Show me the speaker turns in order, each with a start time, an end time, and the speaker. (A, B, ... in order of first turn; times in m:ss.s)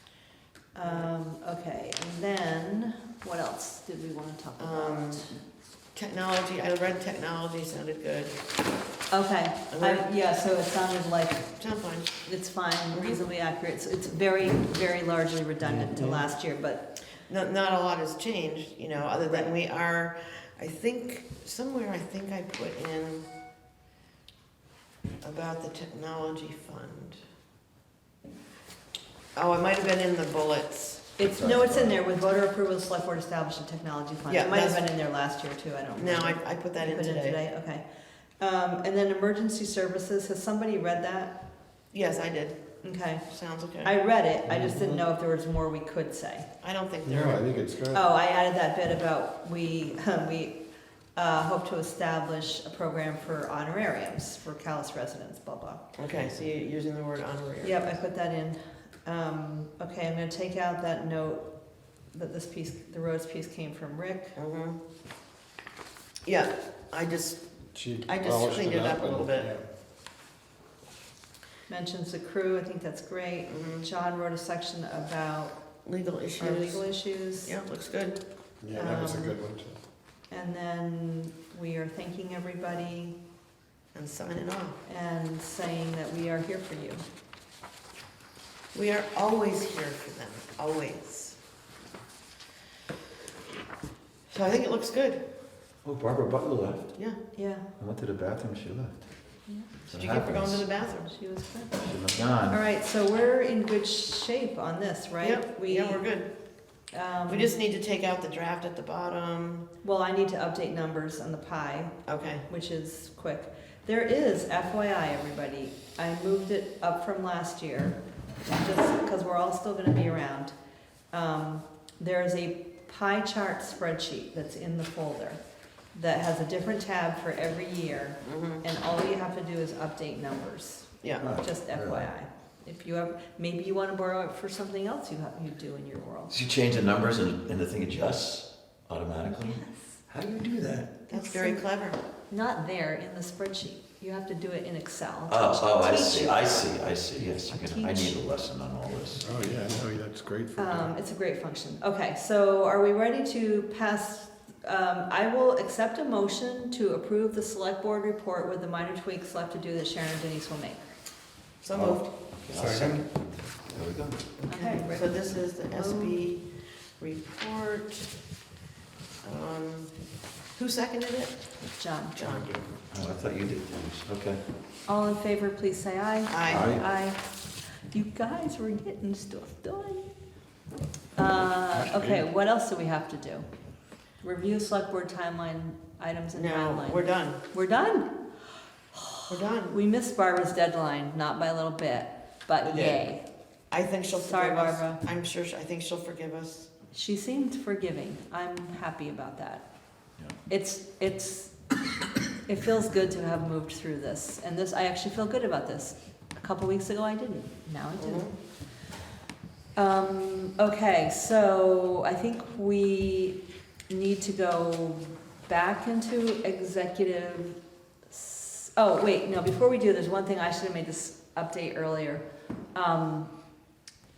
0:00.7-0:05.4 A
0:00.8-0:01.1 B
0:04.6-0:05.3 B
0:05.9-0:08.4 B
0:09.1-0:11.5 A
0:09.7-0:10.0 B
0:11.6-0:12.1 B
0:12.2-0:16.9 A
0:12.9-0:13.2 B
0:15.6-0:16.2 C
0:17.3-0:23.3 B
0:25.2-0:27.2 B
0:29.3-0:31.9 B
0:31.2-0:37.8 A
0:34.3-0:34.8 B
0:35.9-0:37.4 B
0:38.4-0:41.4 A
0:41.9-0:42.6 B
0:42.8-0:43.3 A
0:43.3-0:43.9 B
0:43.8-0:46.5 A
0:44.5-0:45.0 C
0:46.6-0:47.5 B
0:47.0-0:48.0 C
0:47.9-0:50.6 A
0:51.2-0:55.8 A
0:56.0-0:57.9 B
0:57.6-1:01.5 A
1:02.1-1:04.4 A
1:04.4-1:04.8 B
1:06.2-1:07.4 B
1:07.7-1:09.6 C
1:07.9-1:09.5 B
1:11.7-1:15.6 A
1:13.5-1:13.8 B
1:15.8-1:18.2 B
1:16.4-1:17.6 A
1:18.6-1:19.8 C
1:18.7-1:19.3 B
1:20.3-1:23.2 A
1:23.9-1:24.8 B
1:24.8-1:27.0 A
1:28.7-1:31.4 B
1:34.3-1:35.2 B
1:35.8-1:36.9 D
1:37.3-1:37.6 A
1:37.8-1:39.0 D
1:39.9-1:40.7 D
1:39.9-1:41.1 B
1:41.1-1:41.9 A
1:41.8-1:42.6 D
1:42.5-1:46.1 A
1:45.2-1:46.3 B
1:46.9-1:47.5 A
1:47.3-1:49.7 B
1:49.8-2:00.5 A
1:52.0-1:52.4 B
2:01.1-2:05.4 A
2:05.9-2:16.3 A
2:08.2-2:08.6 B
2:11.2-2:12.1 D
2:16.3-2:20.9 D
2:19.3-2:20.0 A
2:21.1-2:21.6 A
2:21.1-2:22.0 B
2:22.3-2:26.8 A
2:25.3-2:29.3 D
2:27.5-2:28.2 A
2:29.2-2:30.9 C
2:30.6-2:40.9 A
2:41.6-2:42.1 B
2:41.7-2:44.2 D
2:42.5-2:43.0 C
2:44.4-2:48.1 B
2:44.5-2:46.2 A
2:49.2-2:49.9 B
2:50.6-2:51.4 B
2:51.8-2:52.2 A
2:52.1-2:52.6 B
2:52.9-2:54.4 D
2:54.8-2:57.2 A
2:56.3-2:56.7 B
2:56.5-2:56.8 C
2:56.5-2:56.8 D
2:57.9-3:00.1 A
3:01.2-3:03.4 A
3:01.7-3:02.2 C
3:04.2-3:08.1 A
3:06.3-3:07.4 B
3:08.9-3:13.2 A
3:09.3-3:09.8 B
3:12.6-3:13.0 B
3:13.7-3:16.7 B
3:14.1-3:15.0 A
3:16.9-3:19.6 A
3:20.5-3:21.6 A
3:22.4-3:28.3 A
3:28.0-3:28.3 B
3:29.8-3:33.4 A
3:33.9-3:42.2 A
3:42.7-3:43.3 A